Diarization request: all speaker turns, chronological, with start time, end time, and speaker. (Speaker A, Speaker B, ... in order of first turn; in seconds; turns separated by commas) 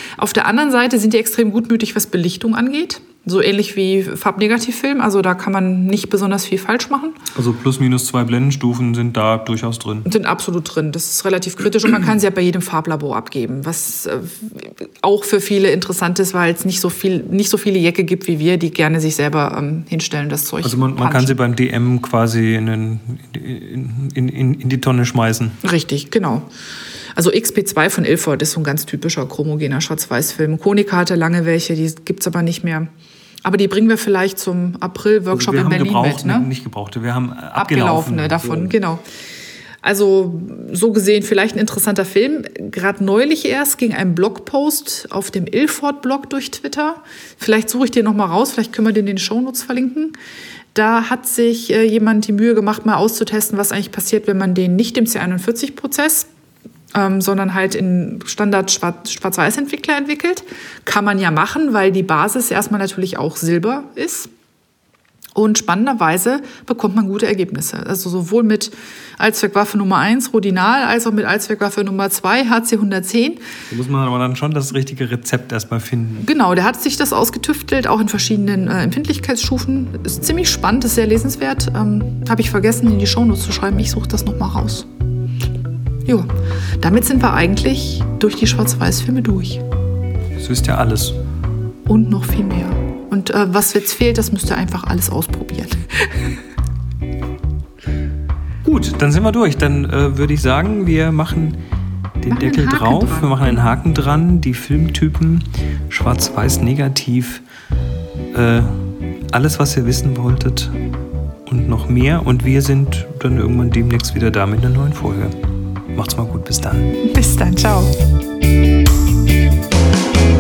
Speaker A: 0.2-7.2, Speaker B: 7.3-10.1, Speaker A: 10.1-21.4, Speaker B: 20.6-25.6, Speaker A: 25.6-26.5, Speaker A: 27.2-32.9, Speaker A: 33.4-36.5, Speaker B: 35.3-38.8, Speaker A: 37.5-39.0, Speaker A: 39.8-50.1, Speaker A: 50.8-56.3, Speaker A: 56.9-64.3, Speaker A: 65.4-73.4, Speaker B: 73.7-76.3, Speaker A: 76.2-84.9, Speaker A: 86.8-89.6, Speaker B: 90.4-91.2, Speaker A: 91.9-96.3, Speaker B: 98.6-101.6, Speaker B: 102.2-107.4, Speaker A: 102.3-103.8, Speaker B: 108.3-110.8, Speaker B: 111.5-115.4, Speaker B: 116.0-116.9, Speaker A: 117.0-117.9